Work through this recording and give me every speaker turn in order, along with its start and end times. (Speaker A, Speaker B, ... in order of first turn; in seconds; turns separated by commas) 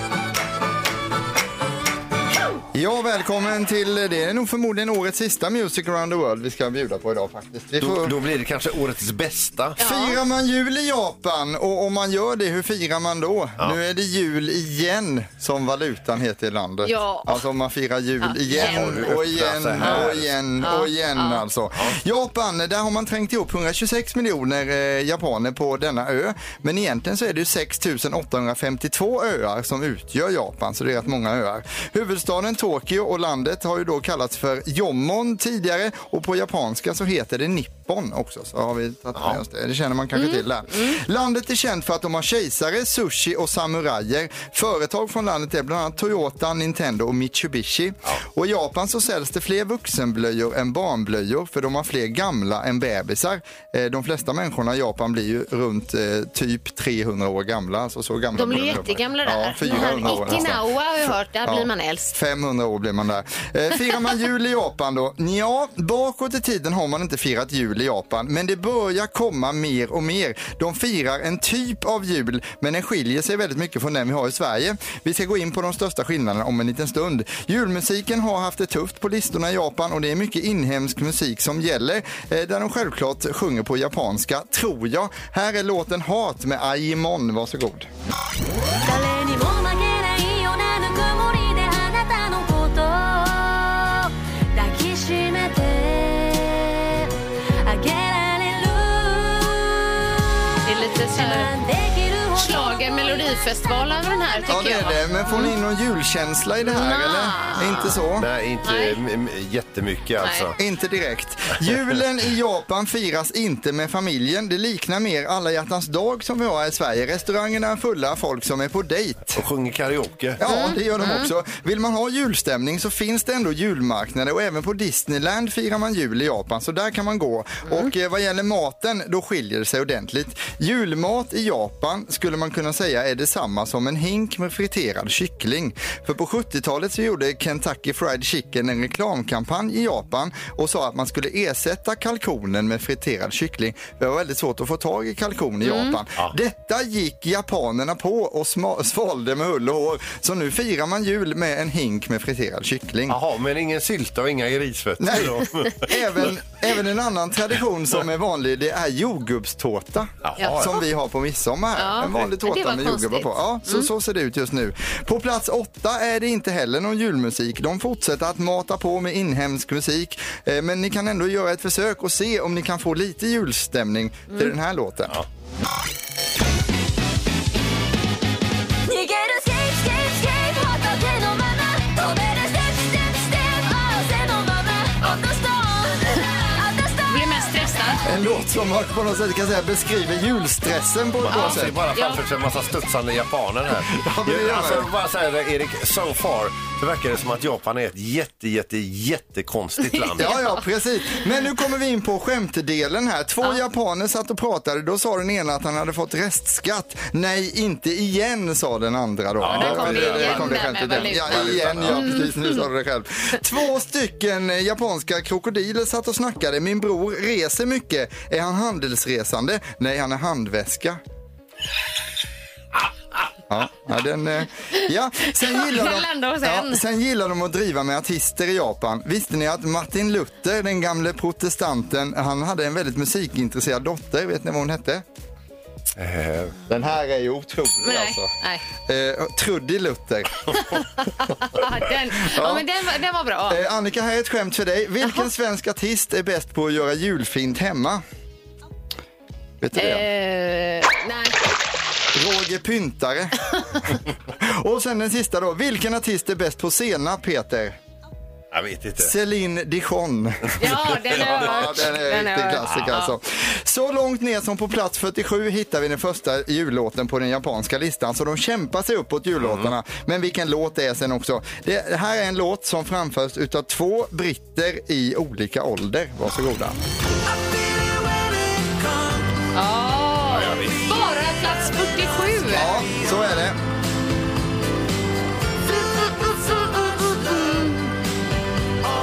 Speaker A: 2.7-8.1, Speaker B: 7.8-9.8, Speaker C: 9.8-10.2, Speaker A: 9.8-87.9, Speaker C: 16.8-17.4, Speaker C: 18.2-19.1, Speaker B: 18.5-20.3, Speaker C: 19.8-20.1, Speaker C: 20.6-21.4, Speaker C: 40.1-41.0, Speaker C: 58.4-62.1, Speaker D: 88.8-97.1, Speaker D: 97.6-104.9, Speaker C: 100.7-101.5, Speaker C: 102.3-105.5, Speaker A: 104.5-108.3, Speaker C: 106.6-108.0, Speaker B: 108.2-110.6, Speaker C: 108.6-109.0, Speaker C: 110.2-110.5, Speaker A: 110.6-119.4, Speaker B: 119.3-120.4, Speaker A: 120.4-153.2, Speaker C: 120.4-121.3, Speaker C: 127.7-127.9, Speaker C: 145.6-146.0, Speaker B: 153.1-156.0, Speaker A: 155.0-175.2, Speaker B: 160.2-160.7, Speaker C: 160.4-160.8, Speaker C: 161.8-163.9, Speaker D: 178.9-187.7, Speaker C: 187.1-188.0, Speaker A: 188.0-191.8, Speaker B: 191.2-200.4, Speaker C: 191.3-192.2, Speaker A: 193.9-194.9, Speaker C: 200.0-200.6, Speaker A: 200.2-221.0, Speaker B: 209.4-212.3, Speaker C: 209.5-212.6, Speaker A: 223.5-235.0, Speaker C: 225.4-226.8, Speaker B: 235.9-236.6, Speaker A: 236.7-238.3, Speaker C: 237.8-238.6, Speaker A: 238.9-240.6, Speaker C: 240.7-243.6, Speaker A: 242.1-242.7, Speaker A: 243.5-248.0, Speaker C: 245.0-245.3, Speaker A: 249.6-250.1, Speaker C: 249.7-251.4, Speaker A: 252.1-253.8, Speaker A: 254.4-257.8, Speaker B: 258.5-259.1, Speaker A: 259.0-276.8, Speaker C: 260.6-263.1, Speaker B: 260.6-261.9, Speaker B: 269.4-269.7, Speaker C: 279.5-282.7, Speaker B: 280.3-280.9, Speaker A: 282.5-283.6, Speaker C: 287.2-287.7